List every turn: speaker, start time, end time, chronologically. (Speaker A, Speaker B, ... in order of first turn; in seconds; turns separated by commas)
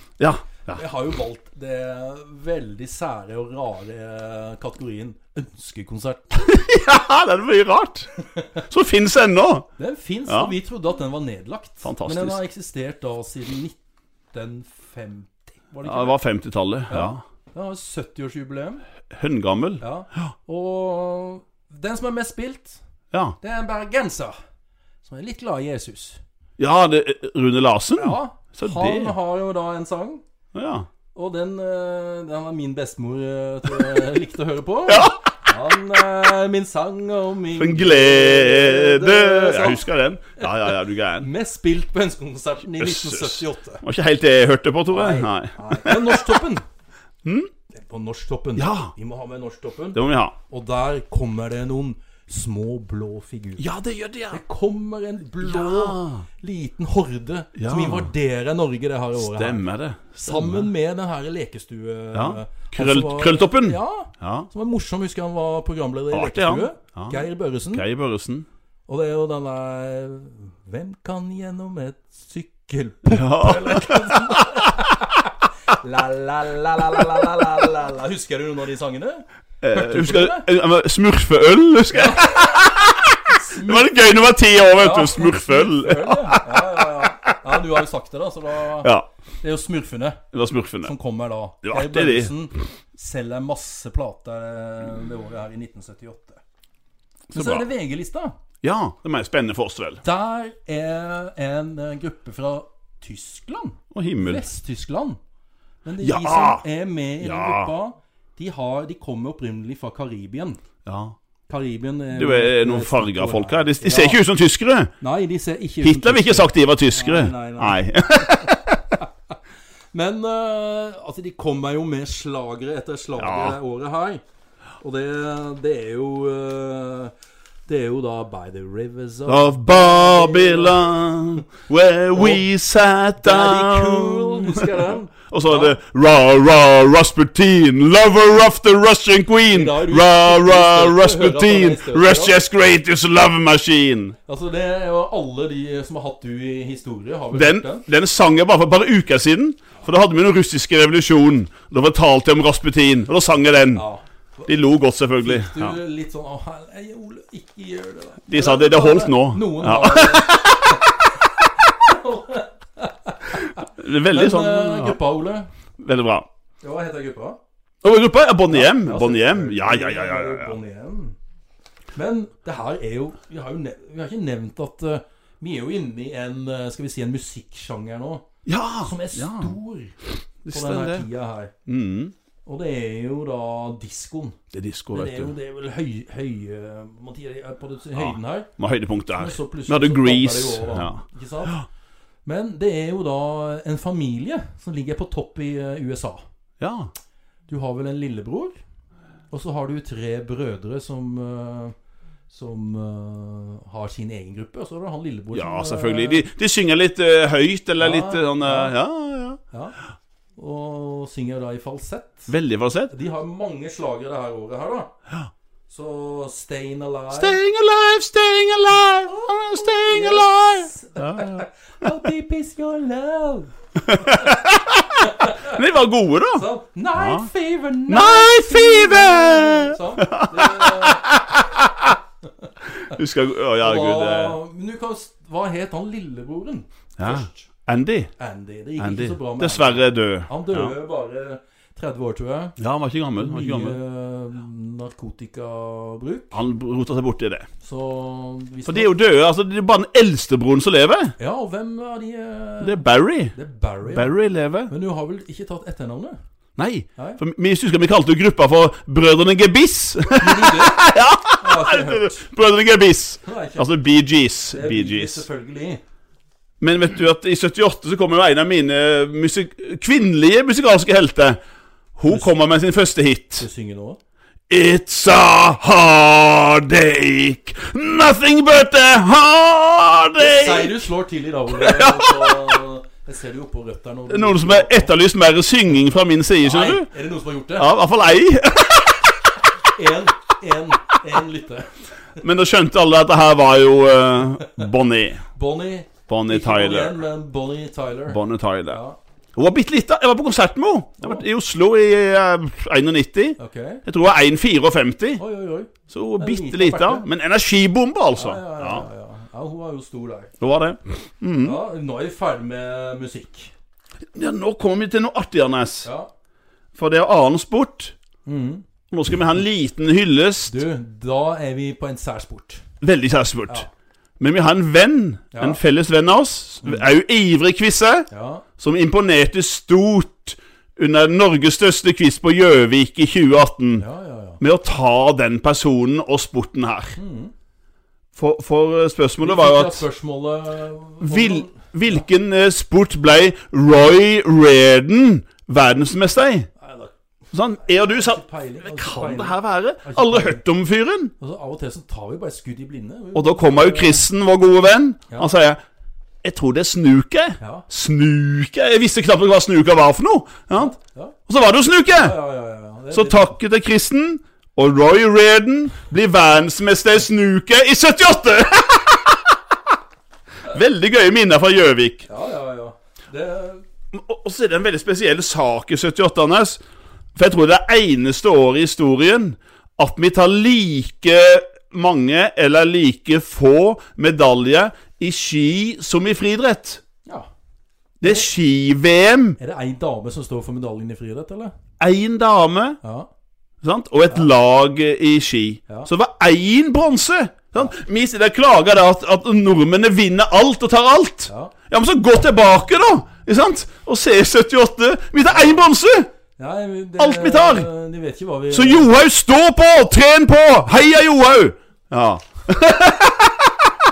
Speaker A: 0.2-0.8, Speaker B: 0.7-6.4, Speaker A: 6.3-8.1, Speaker B: 8.3-8.6, Speaker A: 8.7-9.7, Speaker B: 9.8-13.8, Speaker A: 10.3-10.5, Speaker A: 11.8-12.4, Speaker B: 14.3-16.2, Speaker A: 15.8-17.2, Speaker B: 16.9-18.8, Speaker A: 19.1-20.3, Speaker B: 19.8-22.8, Speaker B: 23.4-24.4, Speaker B: 25.0-26.2, Speaker A: 26.6-29.1, Speaker B: 27.9-30.2, Speaker A: 30.5-30.9, Speaker B: 31.1-39.9, Speaker A: 34.9-35.2, Speaker A: 37.5-41.3, Speaker B: 40.4-43.8, Speaker A: 42.8-46.4, Speaker B: 44.9-46.6, Speaker A: 47.2-47.5, Speaker B: 47.7-53.7, Speaker A: 48.5-48.9, Speaker A: 49.9-50.3, Speaker A: 53.6-54.4, Speaker B: 54.3-67.8, Speaker A: 55.4-56.2, Speaker A: 57.5-58.1, Speaker A: 59.1-60.7, Speaker A: 62.1-64.5, Speaker A: 66.1-68.5, Speaker B: 68.9-80.5, Speaker A: 73.1-74.7, Speaker A: 79.6-87.1, Speaker B: 81.9-82.7, Speaker B: 83.3-90.2, Speaker A: 88.8-89.1, Speaker A: 90.3-90.9, Speaker B: 90.8-96.4, Speaker A: 91.6-92.3, Speaker A: 97.3-97.7, Speaker B: 97.3-98.3, Speaker A: 98.6-100.0, Speaker B: 100.0-105.2, Speaker A: 103.9-104.4, Speaker B: 105.8-110.6, Speaker A: 106.0-106.6, Speaker A: 107.2-107.7, Speaker A: 110.8-111.2, Speaker B: 111.5-114.2, Speaker A: 112.1-114.9, Speaker B: 115.0-118.4, Speaker A: 115.8-119.0, Speaker B: 119.9-124.2, Speaker A: 123.2-123.6, Speaker B: 124.8-127.1, Speaker B: 127.7-131.0, Speaker A: 129.3-144.2, Speaker B: 132.1-132.5, Speaker B: 133.2-135.8, Speaker B: 139.5-142.4, Speaker B: 144.2-147.9, Speaker A: 147.3-153.8, Speaker B: 153.7-154.5, Speaker A: 154.5-155.8, Speaker B: 155.2-160.9, Speaker A: 158.3-160.9, Speaker B: 161.7-165.5, Speaker A: 163.4-165.0, Speaker A: 165.8-166.3, Speaker B: 166.6-167.4, Speaker A: 167.8-170.5, Speaker B: 168.5-171.2, Speaker B: 171.9-178.2, Speaker A: 178.4-179.6, Speaker B: 178.8-179.9, Speaker A: 180.4-181.1, Speaker B: 180.5-181.5, Speaker A: 181.7-182.1, Speaker B: 182.4-184.4, Speaker A: 184.5-185.3, Speaker B: 184.9-188.5, Speaker A: 187.9-191.6, Speaker B: 189.1-191.6, Speaker B: 192.2-196.2, Speaker A: 196.6-196.9, Speaker B: 197.5-198.6, Speaker B: 199.3-201.7, Speaker B: 202.3-206.2, Speaker A: 205.3-209.4, Speaker B: 207.8-208.7, Speaker B: 209.5-209.8, Speaker B: 210.4-212.3, Speaker A: 212.3-212.9, Speaker B: 212.9-214.9, Speaker B: 215.7-217.4, Speaker A: 217.1-221.4, Speaker B: 219.1-224.4, Speaker A: 223.8-227.3, Speaker B: 225.0-225.6, Speaker B: 226.3-231.1, Speaker A: 227.9-232.0, Speaker A: 232.8-234.4, Speaker B: 233.6-237.4, Speaker A: 237.0-238.1, Speaker B: 238.2-242.6, Speaker A: 238.8-240.7, Speaker A: 242.6-243.8, Speaker B: 243.2-246.4, Speaker A: 246.3-247.5, Speaker B: 247.6-248.9, Speaker A: 248.7-251.1, Speaker B: 251.2-254.1, Speaker A: 252.6-254.7, Speaker B: 254.7-256.2, Speaker A: 256.6-265.2, Speaker B: 260.2-262.3, Speaker B: 263.2-263.7, Speaker B: 264.5-265.8, Speaker A: 266.6-271.4, Speaker A: 271.9-273.4, Speaker B: 273.4-274.0, Speaker A: 274.5-280.9, Speaker B: 280.2-284.9, Speaker A: 281.5-282.6, Speaker A: 284.1-286.9, Speaker B: 286.4-287.7, Speaker A: 287.6-289.1, Speaker B: 289.7-291.7, Speaker A: 292.2-295.2, Speaker B: 295.3-299.0, Speaker A: 296.1-297.0, Speaker A: 298.1-298.8, Speaker A: 299.3-305.2, Speaker B: 301.0-301.2, Speaker B: 303.4-303.8, Speaker B: 305.2-307.1, Speaker A: 305.9-308.9, Speaker B: 308.1-310.3, Speaker A: 310.4-311.6, Speaker B: 311.4-313.5, Speaker A: 314.1-315.9, Speaker B: 315.8-316.1, Speaker A: 316.7-317.9, Speaker B: 318.2-318.6, Speaker A: 318.9-320.5, Speaker B: 320.5-322.6, Speaker A: 322.8-323.6, Speaker A: 324.2-333.8, Speaker B: 325.3-325.6, Speaker B: 328.1-328.4, Speaker B: 333.8-334.4, Speaker A: 334.4-336.9, Speaker B: 336.9-337.3, Speaker A: 338.1-339.8, Speaker B: 339.2-342.0, Speaker A: 341.0-346.5, Speaker B: 346.6-346.9, Speaker A: 347.3-351.1, Speaker B: 347.6-350.4, Speaker B: 351.2-354.1, Speaker A: 353.1-355.6, Speaker A: 356.2-360.7, Speaker B: 357.4-357.7, Speaker B: 360.5-361.1, Speaker A: 361.3-362.2, Speaker B: 361.9-363.3, Speaker A: 362.9-369.4, Speaker A: 370.4-372.1, Speaker B: 372.1-373.6, Speaker A: 373.9-376.6, Speaker A: 377.1-386.8, Speaker A: 388.0-389.4, Speaker B: 388.0-388.3, Speaker B: 389.4-391.5, Speaker A: 391.8-392.8, Speaker B: 392.8-393.1, Speaker A: 393.6-406.1, Speaker B: 401.3-401.5, Speaker B: 406.4-408.9, Speaker A: 407.0-407.7, Speaker A: 408.5-413.7